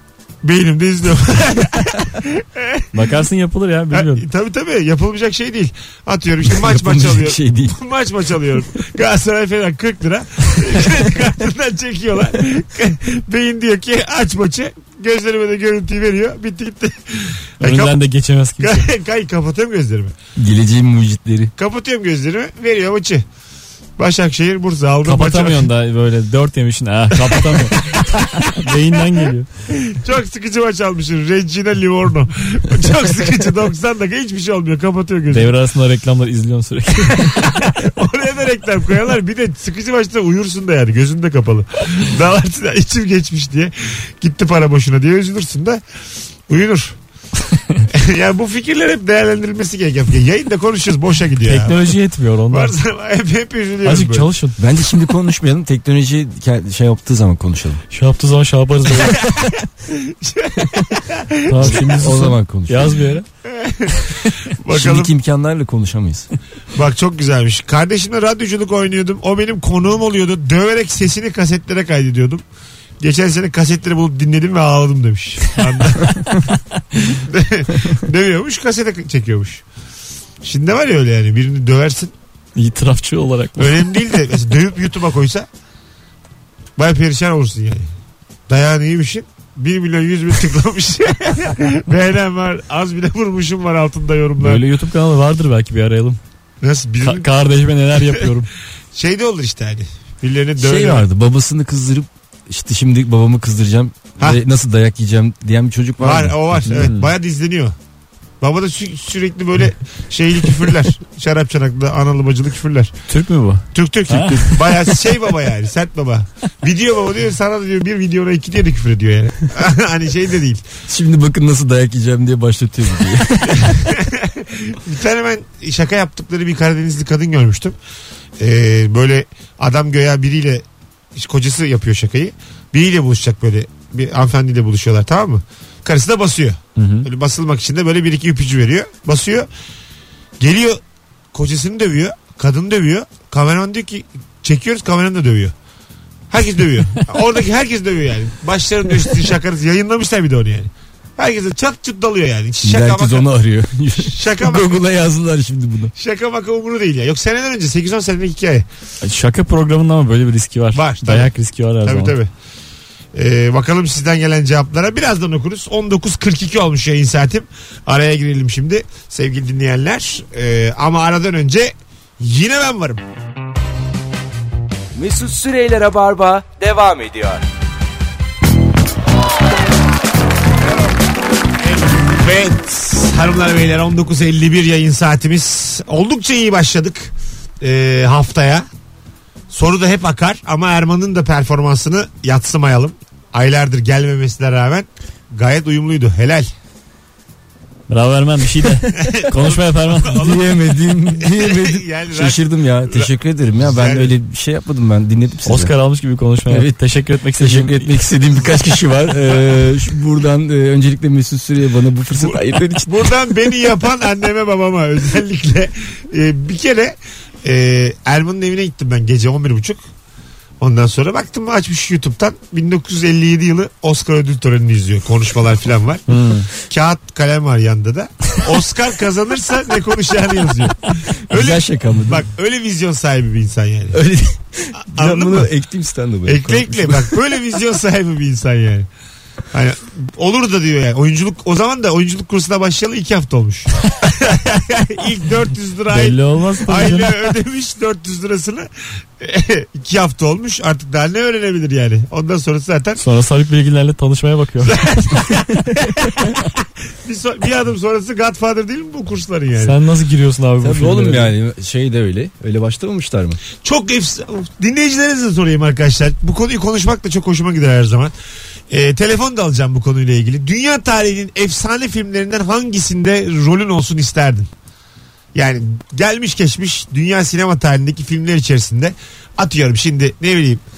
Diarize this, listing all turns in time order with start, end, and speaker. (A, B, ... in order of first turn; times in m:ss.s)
0:00.4-0:03.0 A
0:02.9-0:04.2 B
0:03.9-0:18.0 A
0:06.5-0:07.8 C
0:17.6-0:18.9 B
0:18.6-0:20.1 A
0:20.4-0:21.5 C
0:21.6-0:23.2 A
0:24.0-0:25.7 A
0:25.0-0:29.5 B
0:27.1-0:28.8 A
0:29.7-0:35.5 A
0:35.3-0:37.5 B
0:37.2-0:45.8 A
0:46.5-0:47.0 A
0:47.9-0:51.9 A
0:51.4-0:52.7 B
0:52.5-0:54.3 A
0:53.8-0:54.6 B
0:54.6-0:57.8 C
0:57.9-0:59.3 B
0:59.0-1:01.9 A
1:01.4-1:03.2 B
1:01.6-1:03.0 C
1:03.4-1:05.1 A
1:04.7-1:06.3 C
1:06.7-1:12.4 A
1:13.0-1:16.2 A
1:17.2-1:19.6 A
1:20.4-1:22.1 A
1:22.6-1:23.9 B
1:23.6-1:25.5 A
1:26.8-1:27.9 A
1:28.5-1:34.6 A
1:34.4-1:36.2 B
1:36.6-1:37.3 A
1:37.0-1:38.5 B
1:37.9-1:38.3 A
1:38.9-1:41.1 A
1:40.6-1:46.7 C
1:46.0-1:47.7 A
1:46.7-1:47.1 B
1:48.4-1:52.9 A
1:53.1-1:54.9 B
1:53.7-2:00.6 A
2:00.9-2:03.8 C
2:03.6-2:07.8 A
2:08.4-2:19.5 A
2:16.8-2:17.1 B
2:20.4-2:20.8 A
2:21.3-2:25.5 A
2:26.3-2:33.3 A
2:32.6-2:35.9 C
2:34.0-2:34.8 A
2:36.0-2:38.6 A
2:39.0-2:42.2 B
2:40.7-2:42.3 A
2:43.1-2:53.0 A
2:54.9-2:57.4 D
3:01.6-3:08.6 A
3:09.5-3:16.5 A
3:17.9-3:20.4 B
3:18.9-3:24.1 A
3:20.1-3:25.7 C
3:25.4-3:28.0 B
3:26.5-3:26.8 C
3:27.4-3:33.1 C
3:32.1-3:39.8 A
3:40.6-3:46.0 A
3:46.1-3:46.5 B
3:46.6-3:54.0 A
3:51.3-3:52.2 C
3:53.9-3:57.2 C
3:54.9-3:55.5 A
3:56.2-3:58.9 A
3:59.5-4:13.0 A
4:05.9-4:07.2 B
4:13.0-4:14.8 B
4:14.6-4:19.8 A
4:19.6-4:21.3 B
4:20.6-4:23.4 C
4:23.5-4:28.1 A
4:28.7-4:34.5 A
4:35.3-4:40.6 A